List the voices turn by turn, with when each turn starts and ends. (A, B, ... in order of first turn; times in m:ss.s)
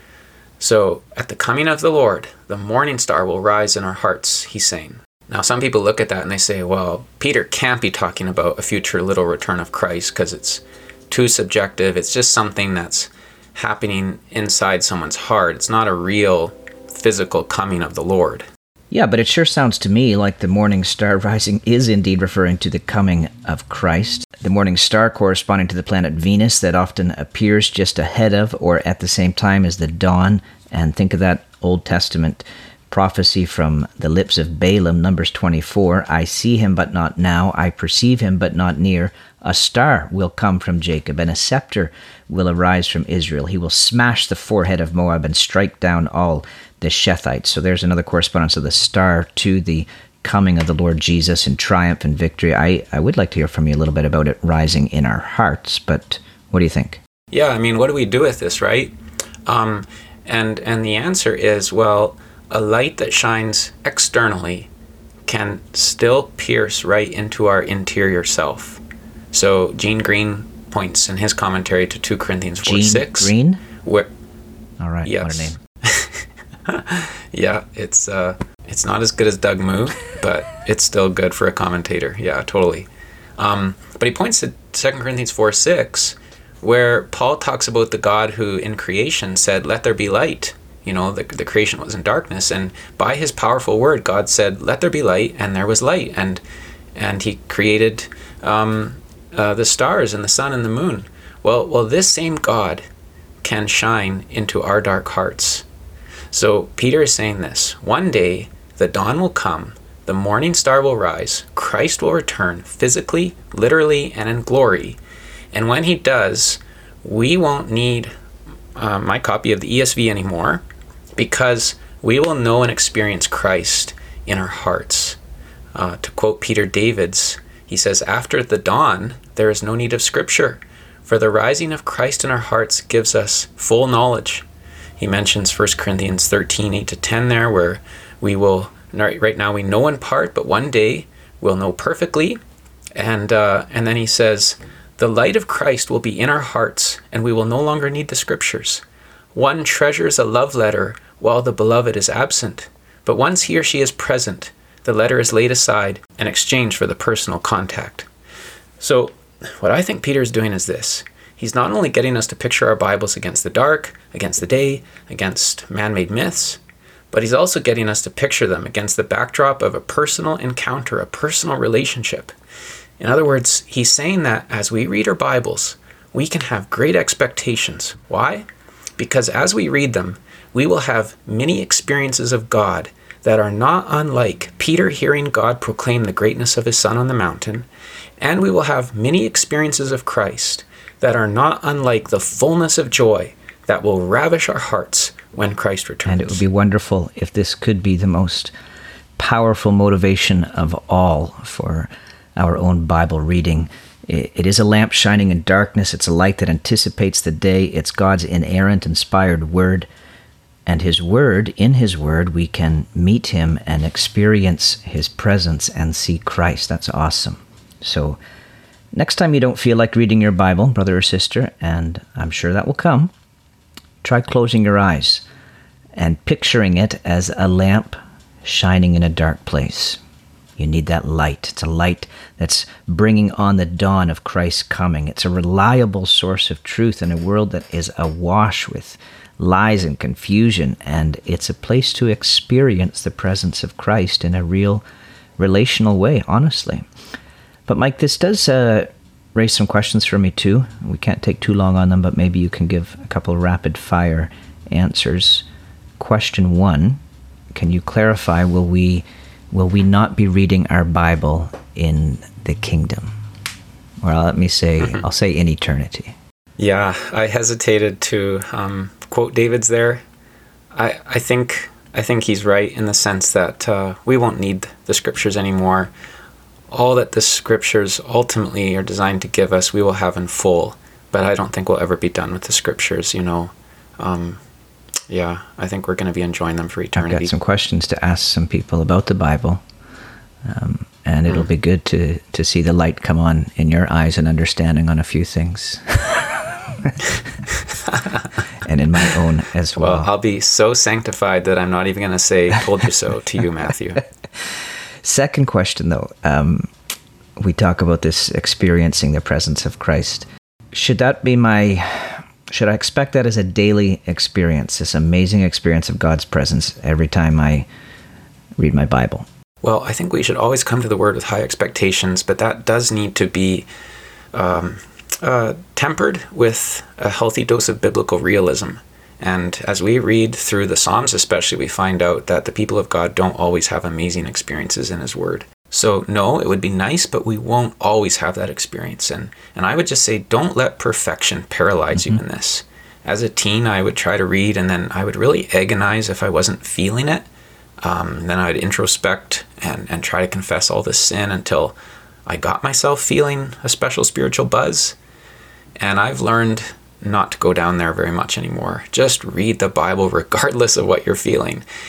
0:00.6-0:18.5 A
0:18.9-0:57.0 B
0:57.3-0:59.0 A
0:59.5-1:04.7 A
1:05.3-1:08.8 A
1:09.3-1:14.1 A
1:12.6-1:13.6 B
1:14.8-1:15.6 B
1:15.0-1:22.9 A
1:23.4-1:36.4 A
1:37.0-1:42.8 A
1:43.4-1:45.7 A
1:46.3-1:55.0 A
1:55.5-1:58.1 A
1:58.8-2:00.6 A
2:01.2-2:05.2 A
2:05.8-2:14.5 A
2:15.0-2:22.4 A
2:23.0-2:28.8 A
2:29.3-2:38.1 A
2:38.8-2:46.6 A
2:47.1-2:52.3 A
2:53.0-2:58.5 A
2:59.0-3:07.7 A
3:08.2-3:16.4 A
3:16.1-3:18.5 B
3:19.2-3:29.9 B
3:30.7-3:38.2 B
3:38.9-3:43.1 B
3:44.0-3:45.2 B
3:46.0-3:50.0 B
3:50.6-4:04.8 B
4:05.4-4:06.8 B
4:07.7-4:15.4 B
4:16.0-4:17.0 B
4:17.5-4:23.2 B
4:24.0-4:26.2 B
4:26.6-4:30.0 A
4:30.7-4:35.9 A
4:36.7-4:44.4 A
4:45.1-4:47.3 A
4:47.0-4:49.6 B
4:50.4-4:57.2 B
4:57.5-4:58.2 A
4:58.6-5:00.1 B
4:59.8-5:04.0 A
5:05.0-5:06.7 B
5:07.4-5:17.7 B
5:18.6-5:19.3 B
5:19.6-5:23.7 A
5:24.3-5:47.3 A
5:41.9-5:42.2 B
5:47.8-5:51.8 A
5:52.3-5:55.0 A
5:55.8-6:01.6 A